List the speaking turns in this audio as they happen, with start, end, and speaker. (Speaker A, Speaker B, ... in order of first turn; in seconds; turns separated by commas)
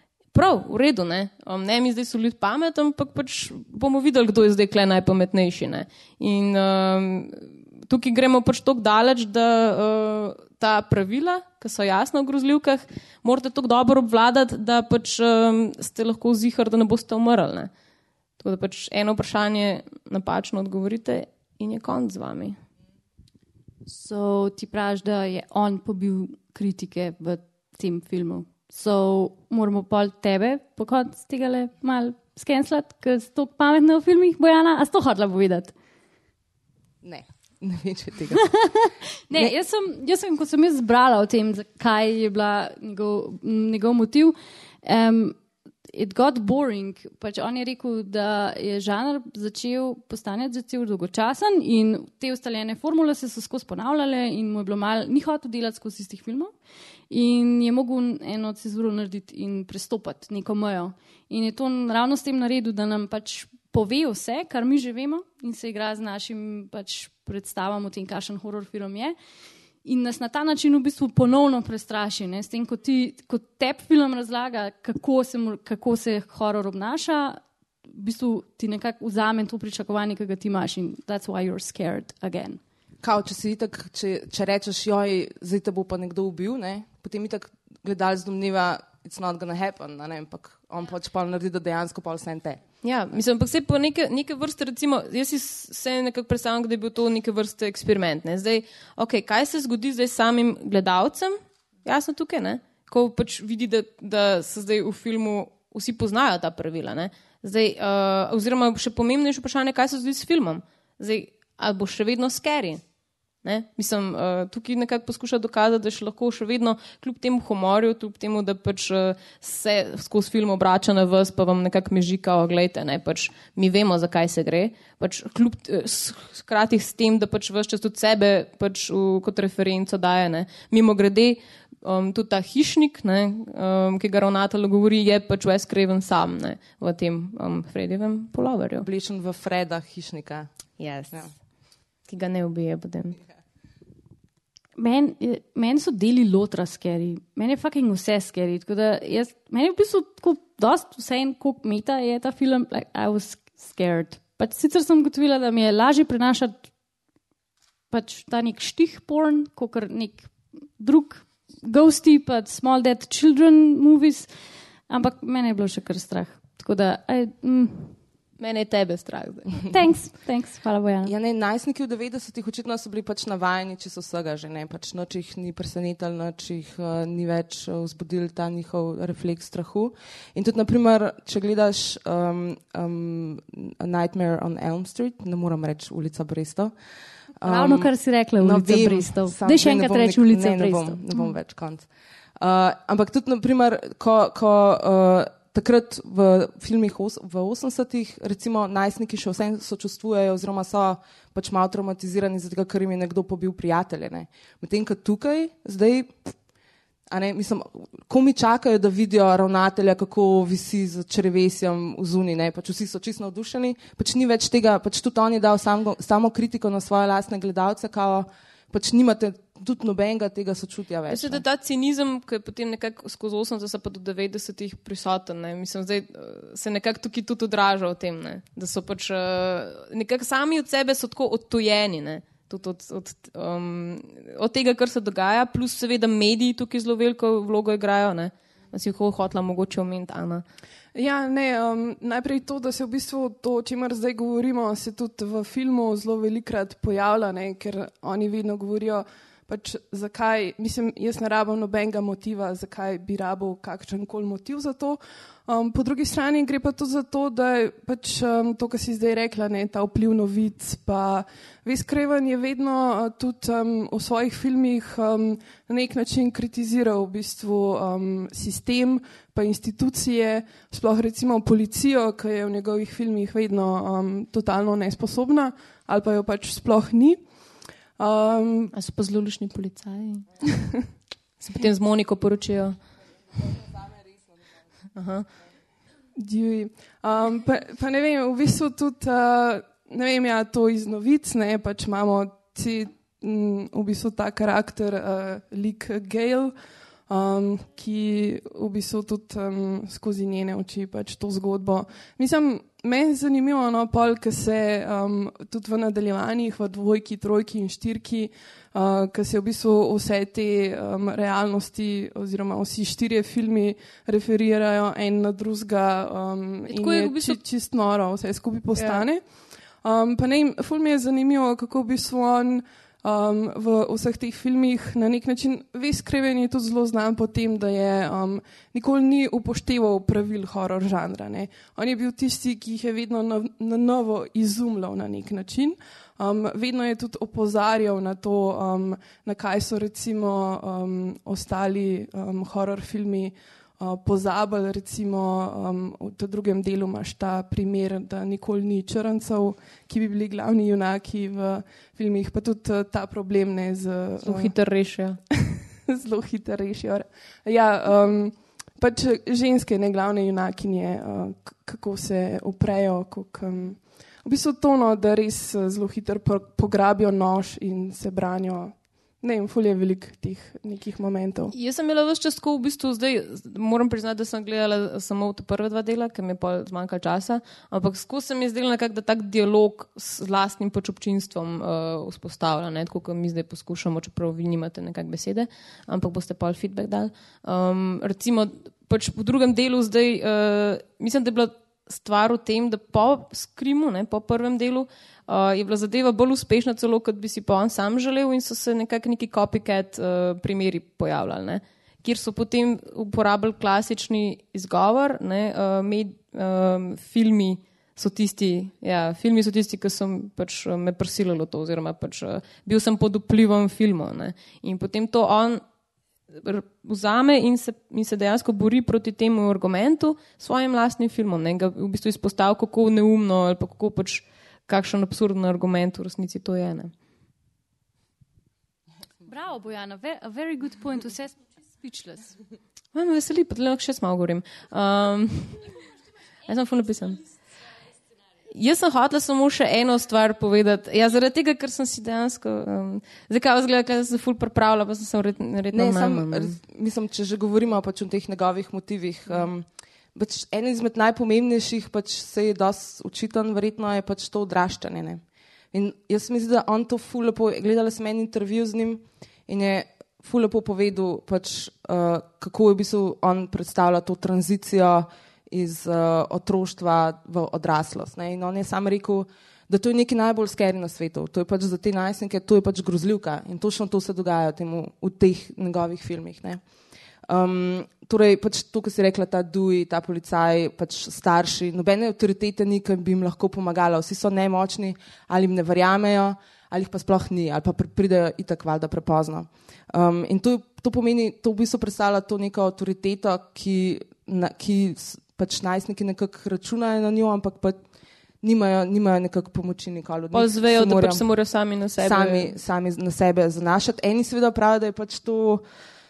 Speaker A: 0.3-17.7, Speaker A: 18.4-22.6, Speaker B: 23.9-35.7, Speaker C: 37.0-38.6, Speaker B: 39.3-45.4, Speaker B: 45.9-56.5, Speaker B: 57.1-69.2, Speaker B: 69.8-82.6, Speaker C: 83.0-92.6, Speaker A: 92.8-112.8, Speaker A: 113.4-138.9, Speaker C: 138.8-140.5, Speaker A: 140.8-141.3, Speaker A: 142.1-143.2, Speaker B: 144.8-156.7, Speaker B: 157.9-164.3, Speaker B: 164.9-168.0, Speaker A: 168.4-169.6, Speaker B: 169.7-171.1, Speaker C: 171.0-186.7, Speaker C: 187.4-206.3, Speaker B: 187.4-191.0, Speaker C: 207.1-221.4, Speaker A: 221.1-240.4, Speaker D: 240.9-277.2, Speaker D: 278.0-278.7, Speaker A: 278.7-280.3, Speaker A: 281.4-282.8, Speaker A: 284.9-285.3, Speaker D: 286.2-296.5, Speaker D: 297.1-319.2, Speaker A: 316.7-317.4, Speaker A: 318.8-319.1, Speaker D: 319.8-354.5, Speaker A: 354.2-355.2, Speaker D: 355.6-371.5, Speaker A: 371.5-415.6, Speaker A: 416.3-426.9, Speaker B: 429.3-432.4, Speaker A: 432.9-435.7, Speaker A: 436.5-437.2, Speaker A: 438.5-446.6, Speaker C: 445.7-476.6, Speaker C: 477.3-497.8, Speaker C: 498.4-501.2, Speaker A: 500.3-502.5, Speaker C: 502.0-505.6